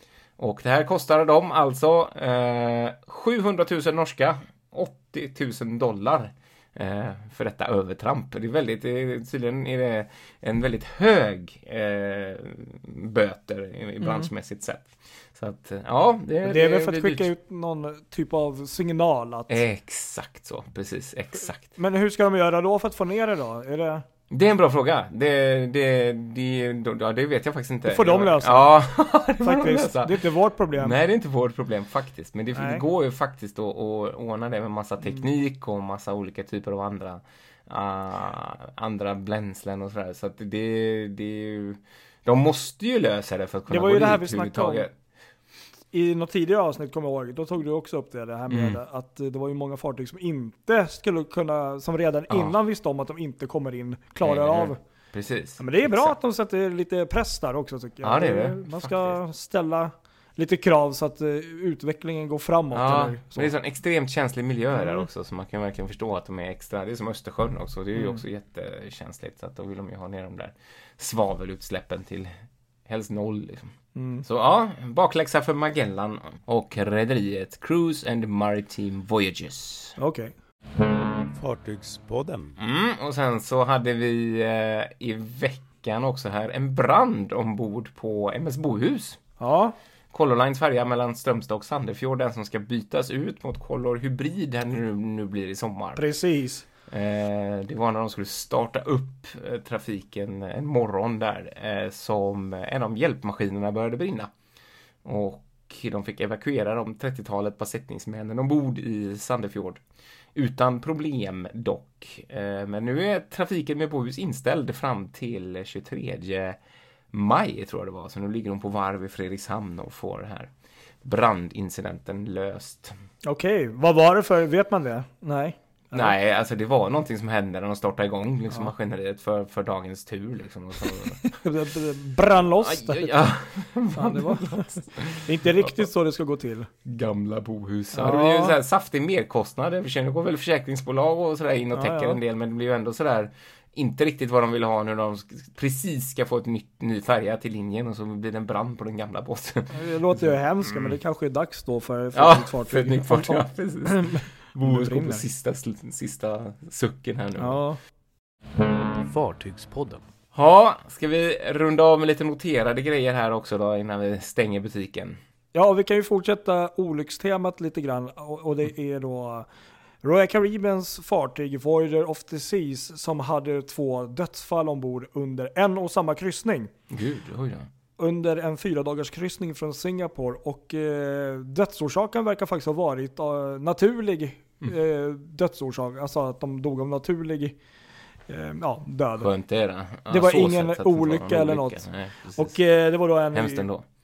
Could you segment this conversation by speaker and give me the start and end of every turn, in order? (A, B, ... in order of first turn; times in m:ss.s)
0:00.4-0:17.3 A
0:14.0-0:14.3 B
0:16.4-0:19.6 B
0:19.5-0:21.7 A
0:21.8-0:24.0 B
0:24.3-0:30.2 A
0:27.8-0:28.8 B
0:29.4-0:31.0 B
0:30.7-0:44.9 A
0:32.5-0:32.9 B
0:43.7-0:44.9 B
0:45.9-0:54.8 B
0:48.5-0:48.8 A
0:52.3-0:52.6 A
0:54.2-0:56.2 A
0:55.6-1:03.5 B
0:58.0-0:59.2 A
1:02.7-1:12.3 A
1:04.7-1:05.1 B
1:08.0-1:08.2 B
1:12.9-1:13.7 A
1:14.0-1:14.2 B
1:14.2-1:20.0 A
1:20.0-1:20.3 B
1:21.4-1:22.5 C
1:22.6-1:29.2 A
1:29.4-1:29.7 B
1:30.1-1:36.0 A
1:36.0-1:36.7 B
1:36.9-1:44.3 A
1:45.0-1:49.8 A
1:50.4-1:56.6 A
1:57.1-2:00.5 A
2:01.0-2:02.9 A
2:03.2-2:06.2 B
2:05.9-2:11.2 A
2:11.0-2:13.3 B
2:12.4-2:15.8 A
2:13.9-2:16.7 B
2:16.8-2:31.0 A
2:17.9-2:18.6 B
2:21.7-2:22.2 B
2:29.7-2:35.3 B
2:32.1-2:37.6 A
2:37.4-2:37.8 B
2:39.1-2:40.0 C
2:40.3-2:45.2 A
2:45.5-2:49.5 B
2:50.0-2:56.7 B
2:56.9-2:57.7 A
2:58.0-3:07.6 B
3:08.3-3:09.3 B
3:09.2-3:12.6 A
3:10.1-3:11.8 B
3:12.4-3:13.7 B
3:13.3-3:13.8 A